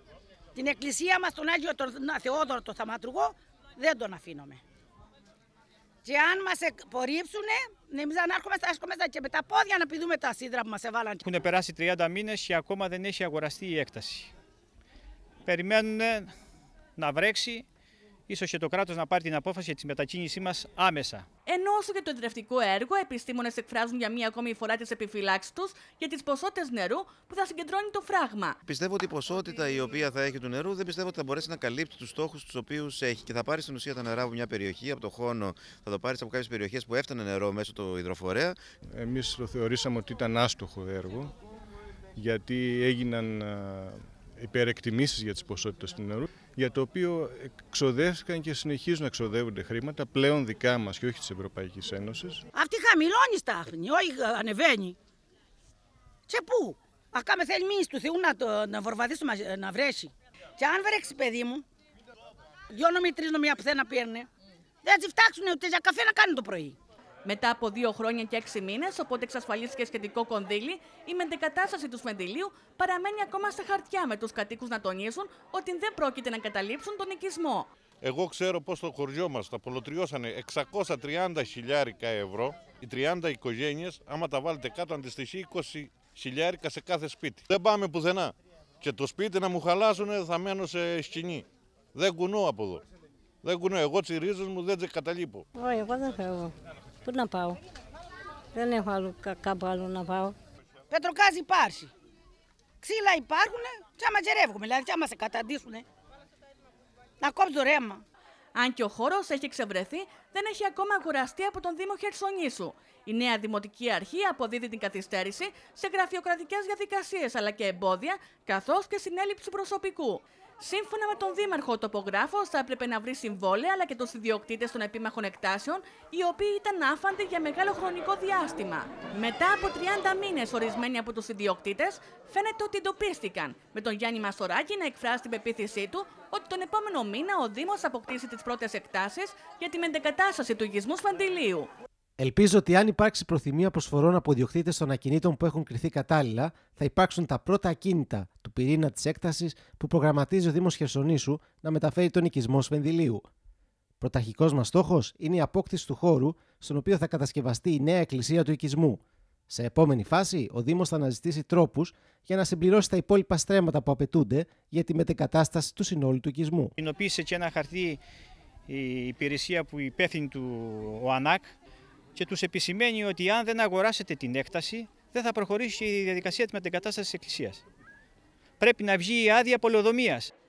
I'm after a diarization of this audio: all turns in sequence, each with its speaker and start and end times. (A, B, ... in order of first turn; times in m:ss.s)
0:00.6-0:04.6 A
0:06.0-0:11.3 A
0:11.2-0:14.3 B
0:15.4-0:16.3 B
0:17.0-0:17.6 B
0:18.3-0:21.3 B
0:21.4-0:28.6 C
0:28.6-0:38.6 D
0:38.9-0:41.3 E
0:42.2-0:52.4 E
0:52.5-0:55.0 A
0:56.3-1:01.6 A
1:02.7-1:04.3 A
1:04.8-1:06.8 A
1:07.2-1:17.7 C
1:18.0-1:32.8 F
1:33.4-1:35.4 F
1:35.5-1:36.5 G
1:37.0-1:37.6 G
1:38.5-1:40.3 G
1:40.9-1:41.9 A
1:42.8-1:45.8 A
1:47.2-1:48.0 A
1:48.5-2:21.7 C
2:22.2-2:33.2 H
2:34.0-2:46.7 H
2:46.8-2:48.0 B
2:48.7-2:51.5 B
2:52.1-2:57.6 B
2:58.6-3:00.3 B